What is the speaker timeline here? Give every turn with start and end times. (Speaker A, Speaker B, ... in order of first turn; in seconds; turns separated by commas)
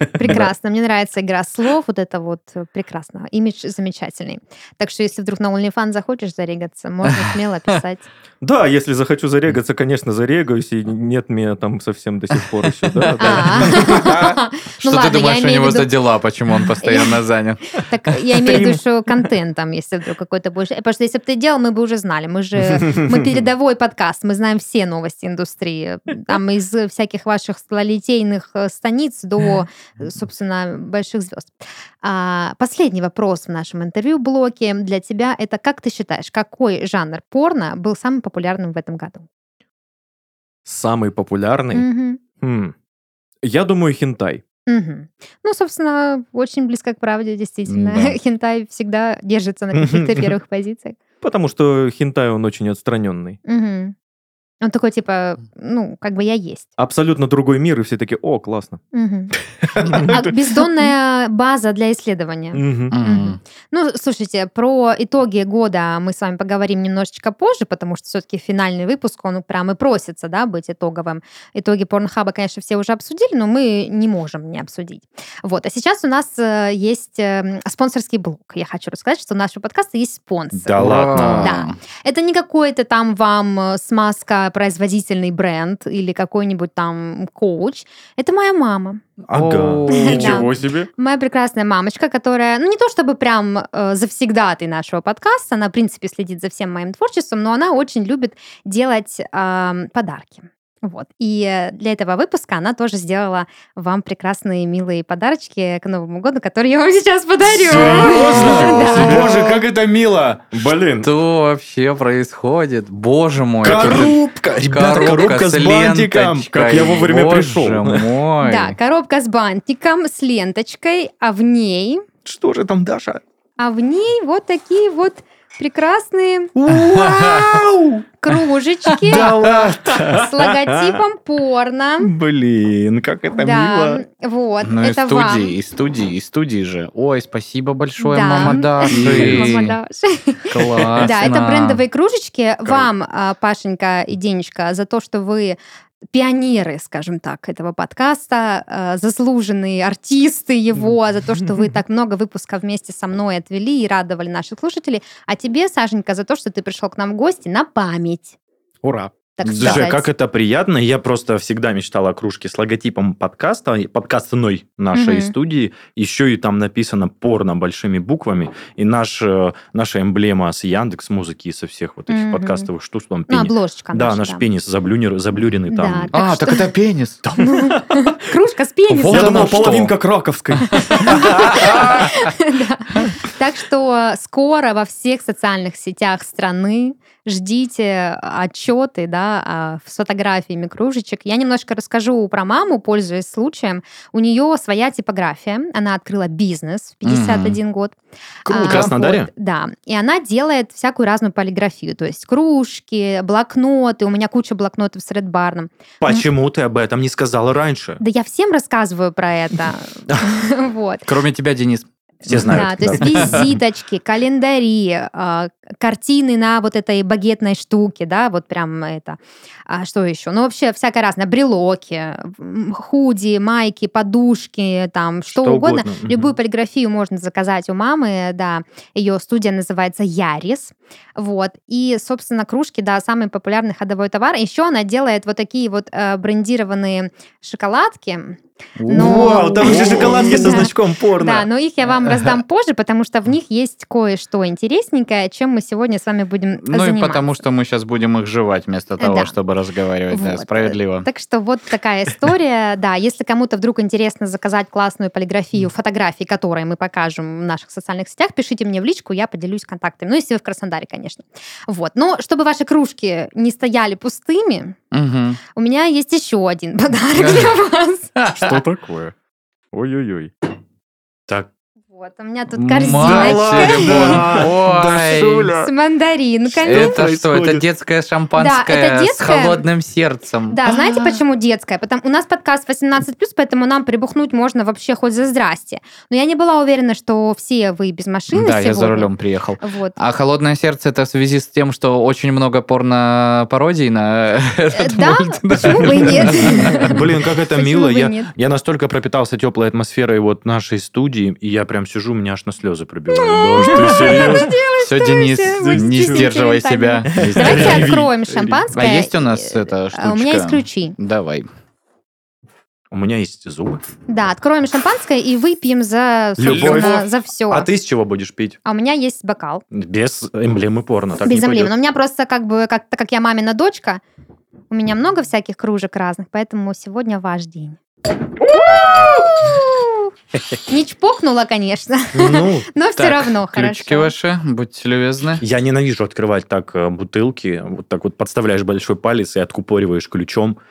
Speaker A: 0.2-8.1, Speaker B: 0.2-0.5, Speaker B: 8.4-14.1, Speaker C: 13.1-17.8, Speaker A: 13.2-15.9, Speaker A: 16.8-39.2, Speaker B: 18.4-18.8, Speaker B: 22.8-23.2, Speaker B: 40.7-41.9, Speaker A: 41.7-42.2, Speaker B: 42.4-42.7, Speaker B: 43.4-44.4, Speaker A: 44.7-51.0, Speaker C: 47.7-48.1, Speaker B: 51.2-53.4, Speaker A: 53.5-53.9, Speaker A: 54.6-56.7, Speaker B: 56.8-58.8, Speaker A: 58.9-80.8, Speaker B: 59.7-60.8, Speaker B: 62.5-63.0, Speaker C: 62.9-63.4, Speaker D: 80.6-81.5, Speaker C: 80.8-81.8, Speaker A: 81.3-89.0, Speaker D: 89.3-89.8, Speaker C: 89.3-90.5, Speaker B: 89.4-90.9, Speaker A: 89.9-109.3, Speaker B: 107.6-109.5, Speaker D: 107.7-110.8, Speaker C: 108.3-109.4, Speaker B: 110.5-111.1, Speaker C: 111.0-118.8, Speaker D: 113.6-116.8, Speaker B: 116.5-118.1, Speaker A: 118.4-122.0, Speaker D: 122.2-123.2, Speaker A: 123.6-126.5, Speaker D: 126.6-128.0, Speaker C: 126.9-127.2, Speaker A: 128.2-129.3, Speaker D: 129.0-130.3, Speaker A: 130.1-132.2, Speaker D: 132.0-134.0, Speaker A: 133.3-135.6, Speaker C: 134.6-139.8, Speaker A: 138.0-145.6, Speaker D: 138.9-139.6, Speaker C: 140.5-141.8, Speaker A: 146.1-158.4, Speaker B: 158.8-159.1, Speaker A: 159.4-160.1, Speaker C: 159.5-159.8, Speaker D: 159.6-176.2, Speaker A: 164.9-165.3, Speaker A: 172.1-172.7, Speaker A: 173.3-174.4, Speaker A: 175.7-176.7, Speaker C: 176.1-177.2, Speaker A: 177.4-179.8, Speaker B: 177.6-178.0, Speaker B: 178.9-182.1, Speaker C: 179.0-179.9, Speaker A: 180.7-206.3, Speaker C: 180.9-181.8, Speaker C: 197.1-197.6, Speaker D: 198.5-199.3, Speaker D: 206.0-208.0, Speaker A: 208.0-211.1, Speaker C: 211.1-213.4, Speaker D: 212.2-213.6, Speaker A: 212.3-247.4, Speaker D: 225.3-226.3, Speaker C: 238.8-240.3, Speaker B: 238.9-241.0, Speaker D: 239.0-241.4, Speaker C: 246.6-251.1, Speaker A: 249.0-249.3, Speaker A: 250.1-264.8, Speaker C: 264.9-265.4, Speaker A: 265.5-268.1, Speaker C: 267.2-267.6, Speaker C: 268.2-268.6, Speaker B: 268.3-269.1, Speaker B: 269.7-270.3, Speaker A: 271.9-274.4, Speaker C: 272.6-275.5, Speaker B: 272.8-275.7, Speaker A: 275.6-277.1, Speaker B: 276.6-277.6, Speaker C: 276.6-281.2, Speaker A: 278.4-279.6, Speaker A: 280.5-290.0, Speaker C: 288.3-296.7, Speaker A: 294.7-298.3, Speaker D: 296.3-304.5, Speaker A: 303.1-311.0, Speaker B: 303.6-304.5, Speaker C: 304.8-308.0, Speaker B: 305.6-306.3, Speaker B: 307.1-308.1, Speaker D: 307.2-307.9, Speaker C: 308.7-311.5, Speaker D: 312.9-313.8, Speaker A: 314.1-317.7, Speaker D: 316.4-318.6, Speaker B: 316.4-317.0, Speaker A: 318.6-319.6, Speaker D: 319.7-321.7, Speaker A: 321.2-324.0, Speaker A: 324.7-327.8, Speaker A: 328.5-330.1, Speaker A: 330.7-334.1, Speaker D: 332.1-332.7, Speaker C: 333.0-335.4, Speaker D: 335.4-340.6